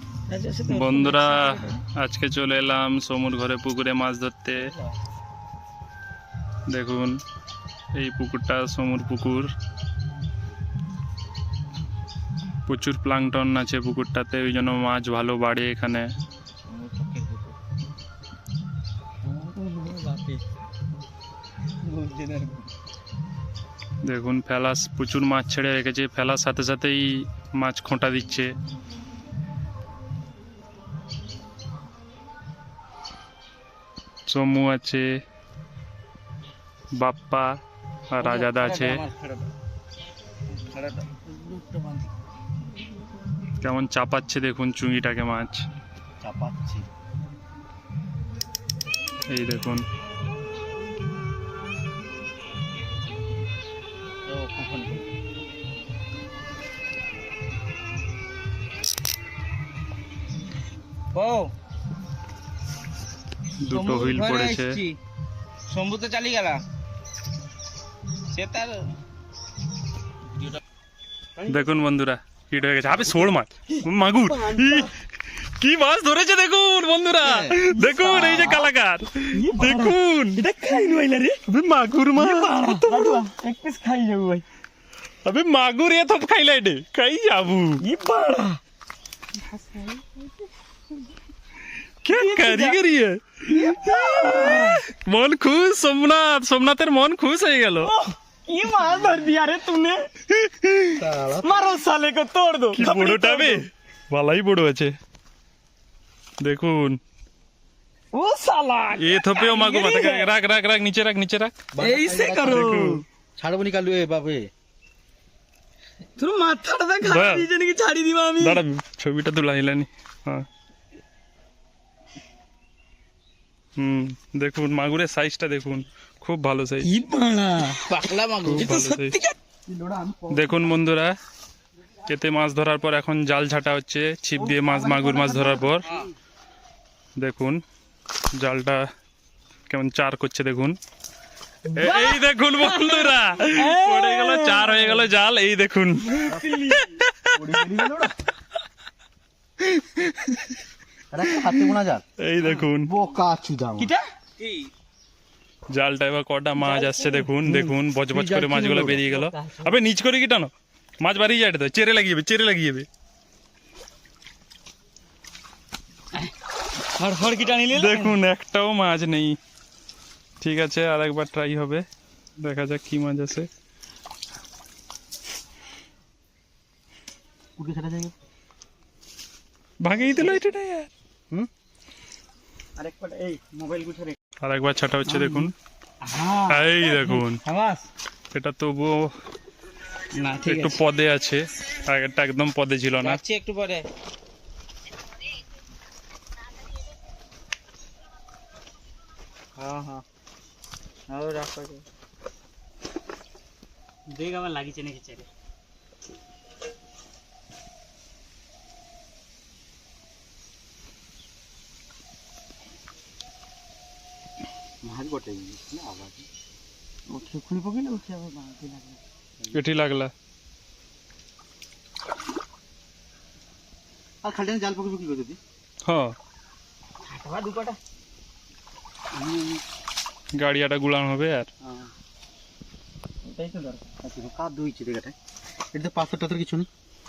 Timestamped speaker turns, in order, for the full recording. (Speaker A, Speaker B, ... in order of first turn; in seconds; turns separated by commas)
Speaker A: 0.3-1.8, Speaker B: 0.7-4.7, Speaker C: 4.5-4.9, Speaker B: 6.7-7.2, Speaker B: 7.9-9.5, Speaker B: 12.7-16.1, Speaker C: 16.8-17.4, Speaker A: 16.8-17.3, Speaker A: 19.3-20.4, Speaker A: 21.9-22.6, Speaker B: 24.0-28.5, Speaker B: 34.3-35.0, Speaker B: 37.0-37.5, Speaker B: 38.1-39.0, Speaker A: 38.2-39.3, Speaker C: 40.7-41.0, Speaker A: 41.0-42.0, Speaker B: 43.6-45.6, Speaker C: 46.2-46.9, Speaker B: 49.3-49.8, Speaker C: 54.3-55.0, Speaker A: 61.1-61.5, Speaker B: 63.6-64.8, Speaker A: 63.6-65.0, Speaker A: 65.7-66.6, Speaker A: 68.3-68.9, Speaker B: 71.5-80.5, Speaker A: 74.3-74.9, Speaker A: 77.4-78.7, Speaker A: 79.3-81.4, Speaker B: 81.5-83.2, Speaker A: 82.2-84.4, Speaker B: 85.2-87.8, Speaker A: 87.8-88.6, Speaker A: 89.5-90.1, Speaker B: 92.0-97.9, Speaker A: 92.1-92.8, Speaker A: 93.5-94.8, Speaker A: 97.8-100.1, Speaker B: 100.5-100.7, Speaker C: 100.9-101.7, Speaker A: 101.4-103.6, Speaker B: 102.7-104.9, Speaker B: 106.4-107.0, Speaker A: 108.1-110.3, Speaker B: 109.0-111.7, Speaker C: 111.7-112.8, Speaker A: 111.8-113.0, Speaker B: 112.4-113.0, Speaker C: 113.4-114.4, Speaker A: 116.2-118.6, Speaker B: 117.0-117.5, Speaker B: 118.4-120.5, Speaker B: 123.8-126.9, Speaker A: 126.8-129.3, Speaker B: 128.4-129.2, Speaker C: 129.7-130.5, Speaker B: 130.3-131.1, Speaker B: 132.0-136.0, Speaker C: 134.8-135.4, Speaker A: 135.1-135.6, Speaker B: 137.2-137.6, Speaker B: 138.3-138.8, Speaker B: 139.7-140.8, Speaker A: 141.7-145.1, Speaker B: 141.7-147.4, Speaker A: 146.1-146.9, Speaker C: 146.3-146.6, Speaker C: 147.3-148.1, Speaker C: 151.1-152.0, Speaker B: 152.2-152.9, Speaker A: 152.4-152.7, Speaker C: 152.8-153.9, Speaker A: 153.8-154.5, Speaker B: 155.7-162.9, Speaker A: 156.6-157.3, Speaker C: 157.4-159.0, Speaker A: 159.1-159.8, Speaker A: 167.0-168.2, Speaker B: 167.7-169.4, Speaker B: 170.4-171.8, Speaker B: 172.4-173.5, Speaker C: 177.6-178.1, Speaker B: 179.8-180.9, Speaker A: 180.1-180.4, Speaker A: 182.8-184.2, Speaker B: 184.4-185.5, Speaker A: 185.1-185.5, Speaker A: 186.0-187.8, Speaker B: 186.5-187.4, Speaker B: 188.3-189.1, Speaker A: 190.1-190.8, Speaker B: 190.4-193.2, Speaker A: 193.0-193.8, Speaker A: 199.6-200.0, Speaker A: 201.1-201.8, Speaker A: 204.1-205.3, Speaker C: 214.8-216.3, Speaker A: 217.1-219.0, Speaker B: 219.5-220.1, Speaker C: 224.2-225.4, Speaker B: 225.8-226.1, Speaker A: 227.0-227.8, Speaker A: 229.1-229.6, Speaker B: 230.4-231.5, Speaker A: 233.3-233.9, Speaker C: 234.0-235.1, Speaker C: 235.7-236.7